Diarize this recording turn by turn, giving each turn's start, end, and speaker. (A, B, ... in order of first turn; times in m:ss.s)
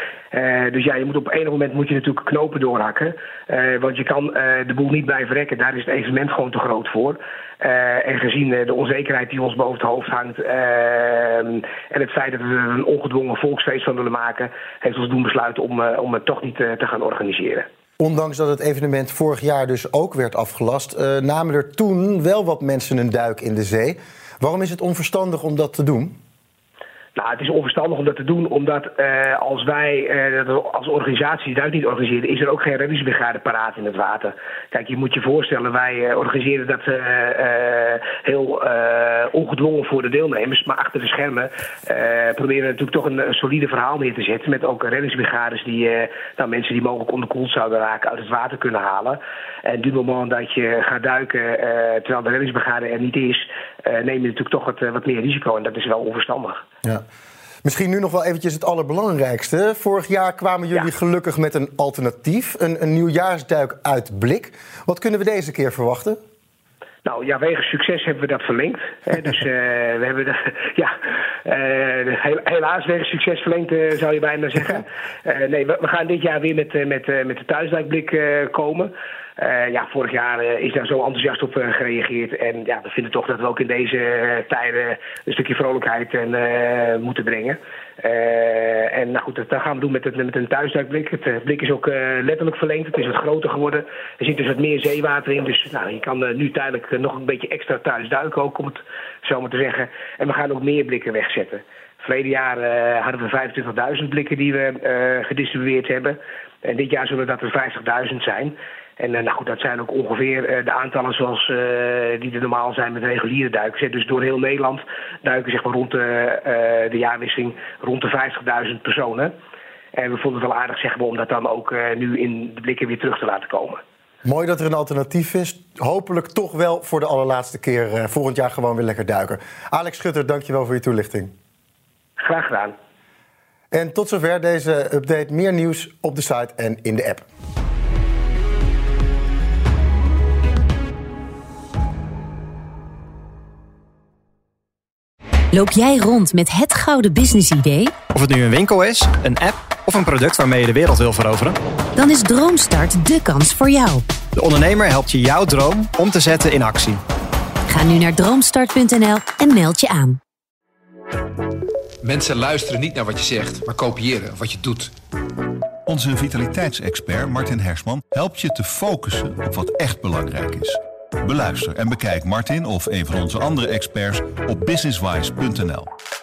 0:00.3-0:17.6 A
0:18.0-0:26.1 B
0:27.2-0:56.6 A
0:57.6-1:06.2 B
1:07.0-1:10.9 A
1:11.4-1:59.3 A
1:59.9-2:03.8 A
2:04.2-2:11.3 B
2:12.2-2:12.7 A
2:13.7-2:17.2 B
2:25.5-2:28.0 C
2:28.1-2:31.6 D
2:32.0-2:34.0 C
2:34.3-2:37.0 D
2:37.7-2:40.2 C
2:42.0-2:44.9 E
2:45.9-2:55.9 F